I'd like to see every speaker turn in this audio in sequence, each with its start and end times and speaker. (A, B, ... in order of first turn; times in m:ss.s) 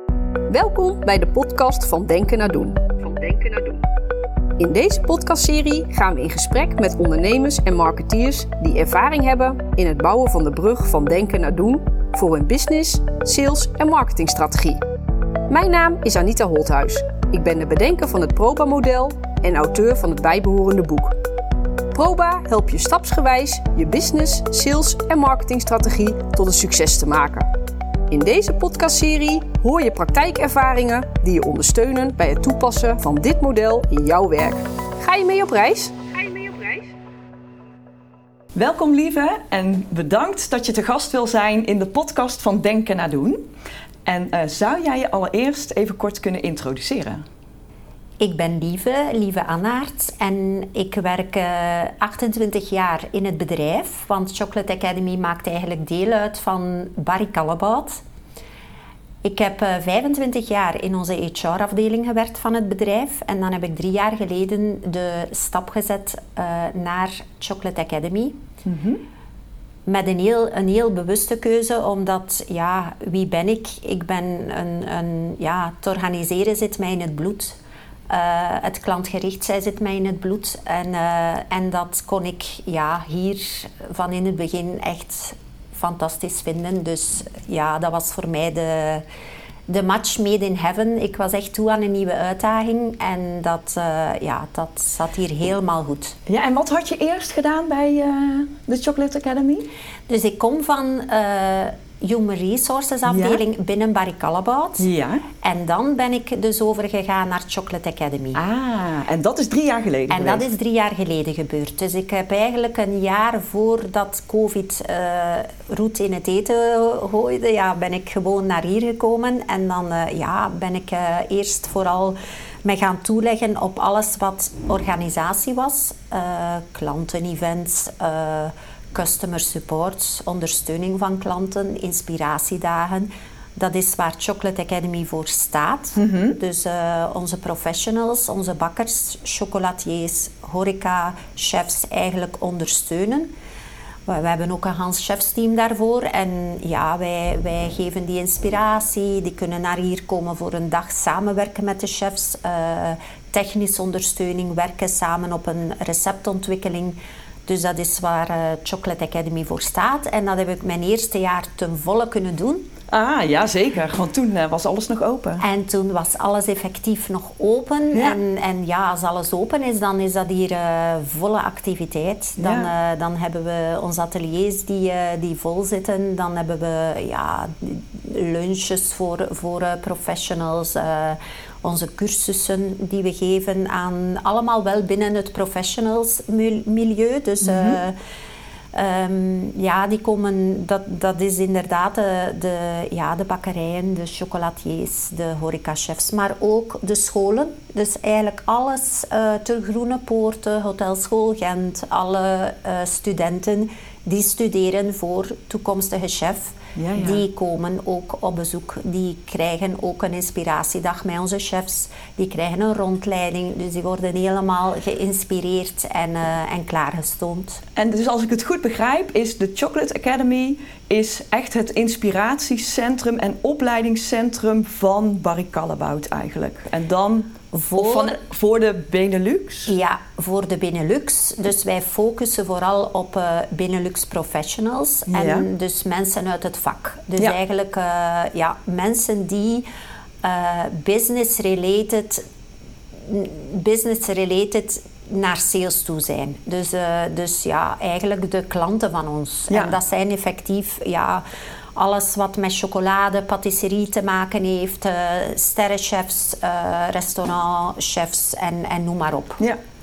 0:00.5-0:03.8 A
0:04.6-0:14.8 A
0:15.5-0:21.1 A
0:21.9-0:27.5 A
0:28.1-0:36.9 A
0:38.5-0:43.4 B
0:44.0-0:47.2 B
0:48.2-0:58.0 C
0:59.2-1:08.4 C
1:08.6-1:09.0 B
1:09.8-1:17.6 C
1:18.1-1:29.0 C
1:29.7-1:36.2 C
1:36.3-1:39.7 B
1:40.1-1:44.9 C
1:43.0-1:43.4 B
1:44.8-1:45.2 B
1:45.4-1:48.4 C
1:48.3-1:50.4 B
1:50.1-2:23.3 C
2:16.0-2:16.4 B
2:24.1-2:42.7 C
2:42.9-2:45.4 B
2:45.4-3:08.0 C
2:47.9-2:48.2 B
2:52.4-2:52.7 B
3:07.4-3:07.8 B
3:08.7-3:37.6 C
3:26.7-3:27.2 B
3:37.8-3:49.7 B
3:47.5-3:48.2 C
3:49.7-3:59.6 C
3:55.1-3:55.4 B
4:00.2-4:02.2 C
4:03.0-4:11.2 C
4:09.5-4:09.8 B
4:11.8-4:19.4 C